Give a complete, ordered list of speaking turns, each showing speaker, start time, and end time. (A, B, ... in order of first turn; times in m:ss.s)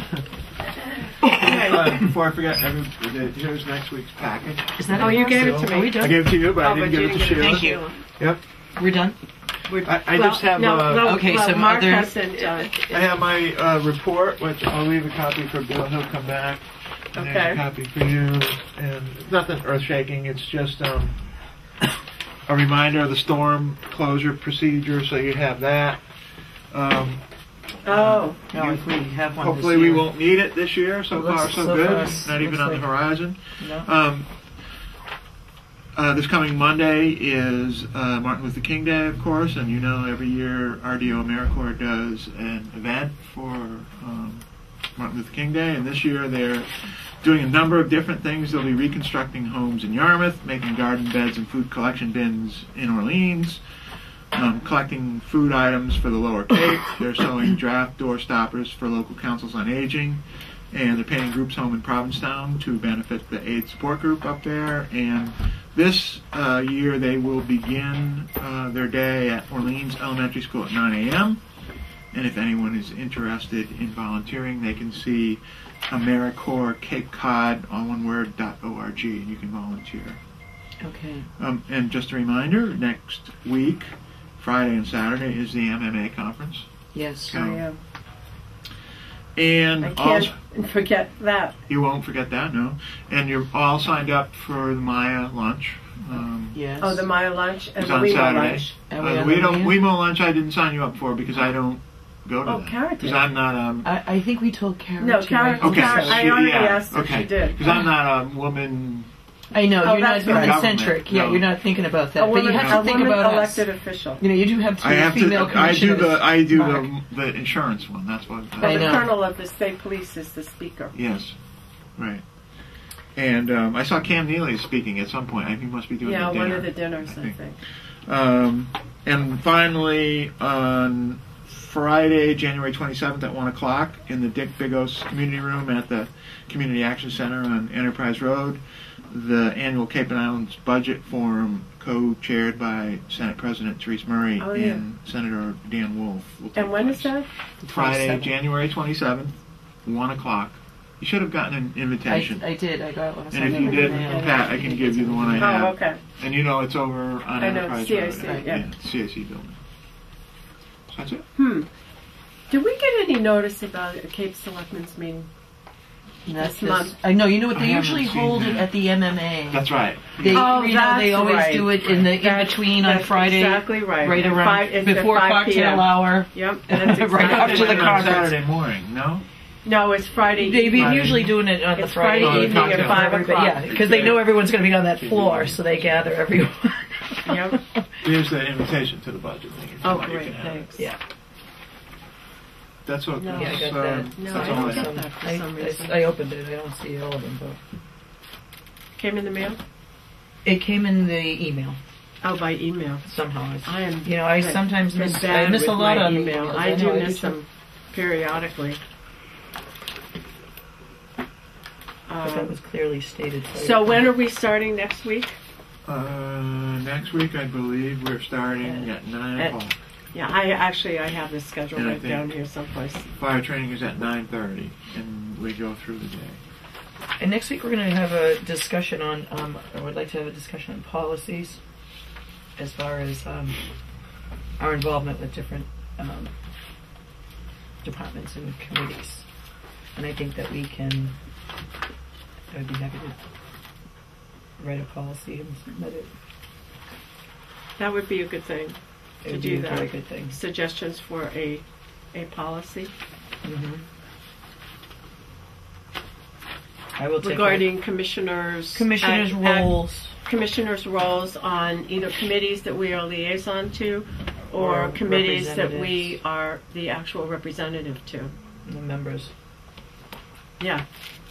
0:01.2-0:01.9 A
0:01.2-0:08.4 B
0:01.4-0:01.8 C
0:04.8-0:06.1 A
0:04.9-0:08.0 C
0:07.4-0:07.8 A
0:08.8-0:09.2 A
0:09.7-0:12.7 C
0:09.8-0:11.2 B
0:11.0-0:13.0 A
0:12.9-0:21.2 B
0:17.2-0:17.6 C
0:22.5-0:26.0 B
0:26.7-0:27.2 B
0:27.8-0:28.4 C
0:27.9-0:34.3 B
0:28.5-0:30.1 A
0:31.1-0:33.0 A
0:33.5-0:33.9 A
0:36.0-0:44.4 B
0:45.0-0:53.6 B
0:54.3-1:00.2 B
1:00.7-1:11.4 B
1:12.1-1:20.2 B
1:20.8-1:21.3 A
1:21.4-1:26.7 B
1:26.9-1:27.4 A
1:27.3-1:27.6 B
1:27.3-1:27.8 C
1:29.4-1:30.3 B
1:29.8-1:31.6 C
1:31.7-1:36.6 B
1:36.1-1:37.0 A
1:36.8-1:38.7 C
1:37.8-1:43.9 B
1:38.9-1:39.8 A
1:42.4-1:43.2 C
1:43.8-1:46.3 A
1:45.0-1:47.8 C
1:45.6-1:49.1 B
1:49.5-1:56.9 A
1:49.8-1:50.7 C
1:50.3-1:51.5 B
1:52.2-1:54.2 C
1:52.5-1:53.1 B
1:54.8-1:59.1 B
1:58.6-1:59.1 A
1:58.6-2:00.9 C
2:00.9-2:01.4 B
2:02.0-2:02.2 B
2:03.2-2:07.4 B
2:06.0-2:07.6 C
2:08.1-2:32.5 B
2:24.4-2:24.8 C
2:26.6-2:27.3 C
2:27.6-2:28.4 A
2:32.0-2:35.6 A
2:33.3-2:39.6 B
2:33.4-2:34.4 C
2:35.4-2:36.0 C
2:37.4-2:38.7 C
2:38.2-2:38.5 A
2:40.9-2:41.2 B
2:41.4-2:41.7 C
2:42.5-2:45.3 C
2:46.3-2:49.7 A
2:46.3-2:47.0 C
2:47.5-2:48.8 B
2:49.5-2:50.6 B
2:50.2-2:58.3 A
2:50.3-2:58.3 C
2:57.1-2:59.2 B
2:59.6-3:04.2 C
3:00.4-3:07.8 A
3:02.2-3:05.7 B
3:07.3-3:07.6 C
3:08.0-3:10.8 B
3:09.8-3:10.9 C
3:12.8-3:14.9 B
3:13.2-3:16.0 C
3:13.3-3:17.6 A
3:19.0-3:19.6 C
3:20.4-3:21.8 A
3:22.2-3:23.1 C
3:23.0-3:27.4 A
3:23.7-3:28.8 C
3:32.1-3:32.6 C
3:32.2-3:34.1 A
3:33.5-3:35.4 C
3:35.9-3:39.8 B
3:38.6-3:39.6 C
3:40.1-3:43.1 C
3:41.8-3:42.3 B
3:43.2-3:46.4 B
3:47.2-3:51.6 A
3:52.6-3:53.6 A
3:54.6-3:56.3 A
3:57.8-3:59.2 A
4:00.0-4:01.2 A
4:02.5-4:03.2 A
4:04.6-4:06.1 A
4:07.8-4:12.9 C
4:09.2-4:10.4 A
4:13.4-4:13.8 A
4:17.0-4:17.8 A
4:17.2-4:28.3 C
4:18.7-4:20.1 A
4:24.6-4:26.2 A
4:28.7-4:29.3 A
4:30.6-4:30.8 C